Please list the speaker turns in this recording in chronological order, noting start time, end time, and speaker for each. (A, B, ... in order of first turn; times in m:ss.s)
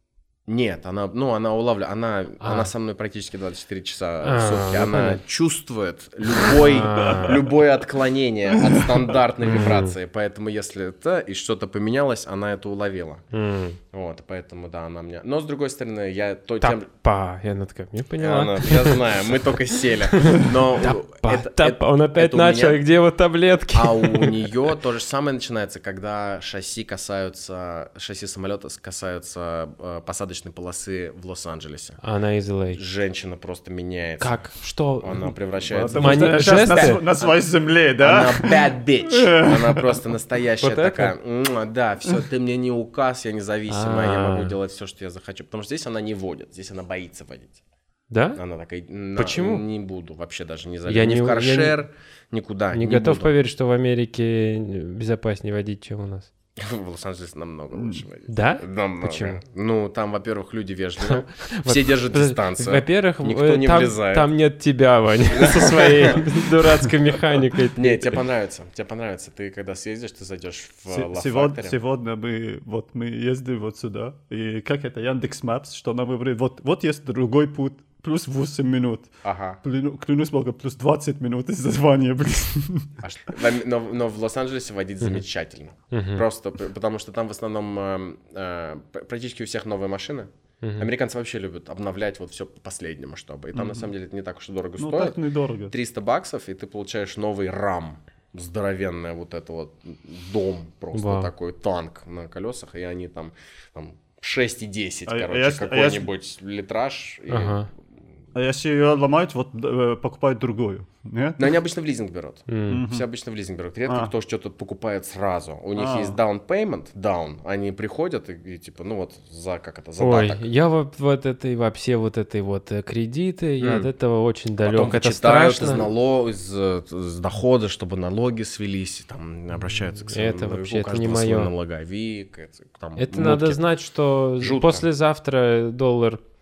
0:00.5-0:13.2 A
0:02.4-0:02.7 B
0:04.2-0:05.2 B
0:06.5-0:07.4 B
0:09.4-0:10.0 B
0:13.3-0:13.8 B
0:13.9-0:16.9 A
0:16.6-0:19.1 B
0:18.2-0:22.8 A
0:20.1-0:24.5 B
0:23.7-0:32.0 A
0:32.0-0:32.8 B
0:32.7-0:37.4 A
0:34.2-0:35.3 B
0:35.7-0:40.0 C
0:35.9-0:37.0 B
0:38.0-0:47.6 A
0:40.6-0:41.1 B
0:43.7-0:44.6 B
0:48.1-0:48.4 B
0:48.4-0:53.3 A
0:49.2-0:49.6 B
0:50.9-0:51.8 B
0:52.7-0:56.3 B
0:56.6-1:04.3 A
0:57.8-0:58.0 C
0:58.3-0:59.4 B
1:01.0-1:08.2 B
1:05.3-1:06.3 A
1:07.8-1:11.8 A
1:10.9-1:23.0 C
1:19.2-1:19.6 A
1:23.0-1:35.2 A
1:25.9-1:26.2 B
1:30.6-1:30.9 B
1:33.5-1:33.9 C
1:34.8-1:35.7 C
1:35.7-1:47.6 A
1:40.9-1:41.3 B
1:45.1-1:46.1 C
1:47.3-1:47.7 B
1:48.4-1:51.4 C
1:51.4-2:00.4 A
1:52.5-1:52.8 B
1:52.7-1:53.1 C
1:53.9-1:54.1 C
1:55.8-1:56.2 C
2:00.0-2:05.9 B
2:03.6-2:03.9 A
2:04.6-2:13.6 A
2:09.9-2:11.5 B
2:13.0-2:16.2 B
2:14.4-2:14.8 A